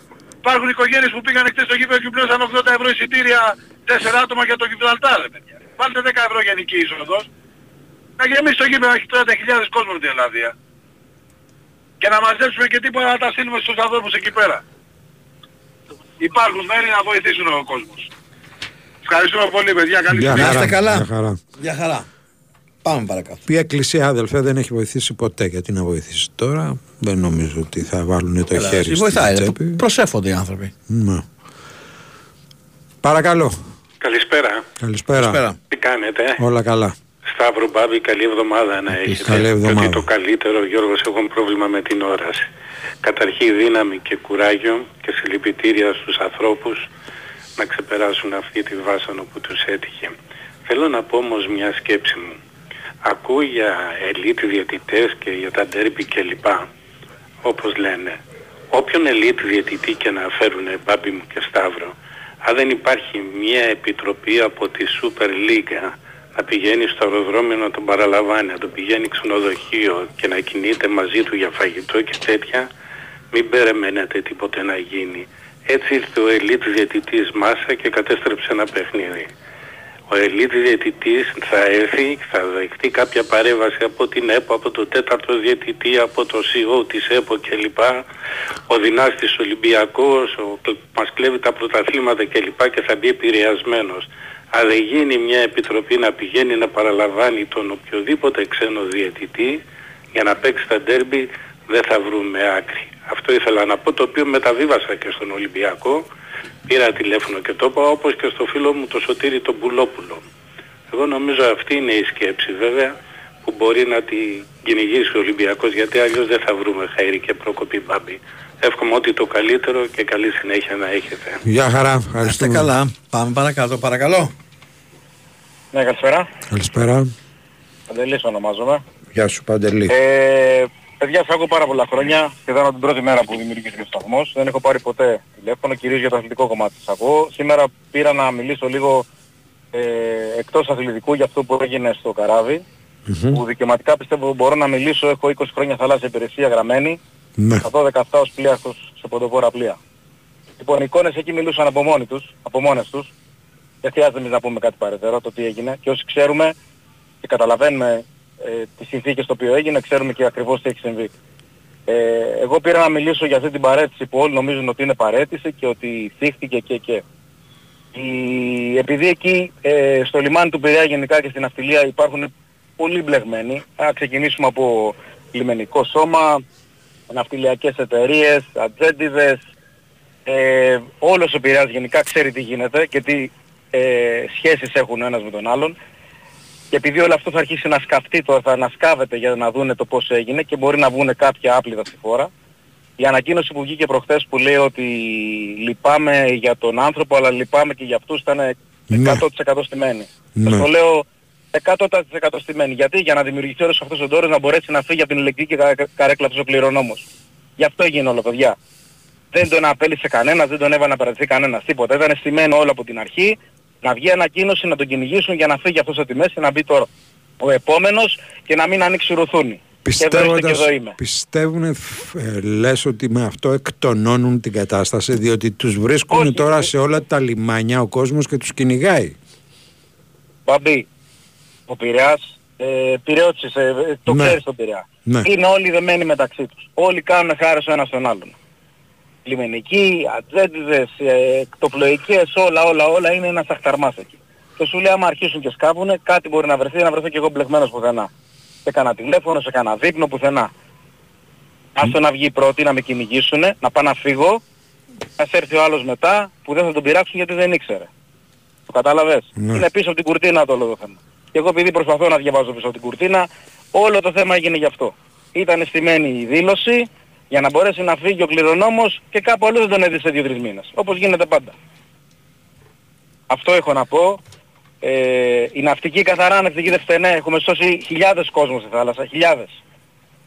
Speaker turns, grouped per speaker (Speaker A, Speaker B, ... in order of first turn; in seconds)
Speaker A: 0.4-7.3, 8.2-10.5, 12.0-14.6, 16.2-18.1, 19.0-20.7
Speaker B: 20.1-21.4, 23.5-29.8, 30.9-31.2, 33.0-33.6, 34.8-35.4, 36.4-36.9, 39.2-40.0, 121.5-122.7, 126.5-127.1, 129.1-129.9, 143.1-143.4, 147.4-147.6, 198.9-199.2, 200.4-200.7, 219.8-229.2, 234.1-234.4, 259.4-259.6
Speaker C: 20.2-21.1, 21.6-22.1, 22.8-23.4, 28.5-30.7, 35.2-35.6, 39.0-39.4, 122.2-124.3
Speaker D: 34.0-34.6, 35.7-36.4, 37.3-42.4, 43.0-46.9, 47.6-50.1, 50.6-52.4, 53.0-56.6, 57.4-58.2, 58.7-61.9, 62.4-72.7, 73.3-79.3, 80.1-88.0, 88.7-99.6, 100.1-106.0, 106.7-110.2, 110.9-112.9, 113.4-121.4
Speaker E: 125.7-126.3, 127.9-128.8, 129.9-139.1, 139.7-142.6, 143.3-147.0, 147.6-149.8, 150.6-153.1, 153.8-156.5, 157.2-161.1, 161.9-167.0, 167.9-176.4, 177.1-179.4, 180.2-185.8, 186.7-192.3, 193.0-207.0, 207.6-208.6, 209.3-216.9, 217.4-220.9, 226.1-226.7, 230.5-230.8, 231.7-238.3, 239.2-248.1, 248.7-250.5, 251.8-254.4, 255.2-257.9, 258.7-271.5, 273.3-274.2, 274.8-279.6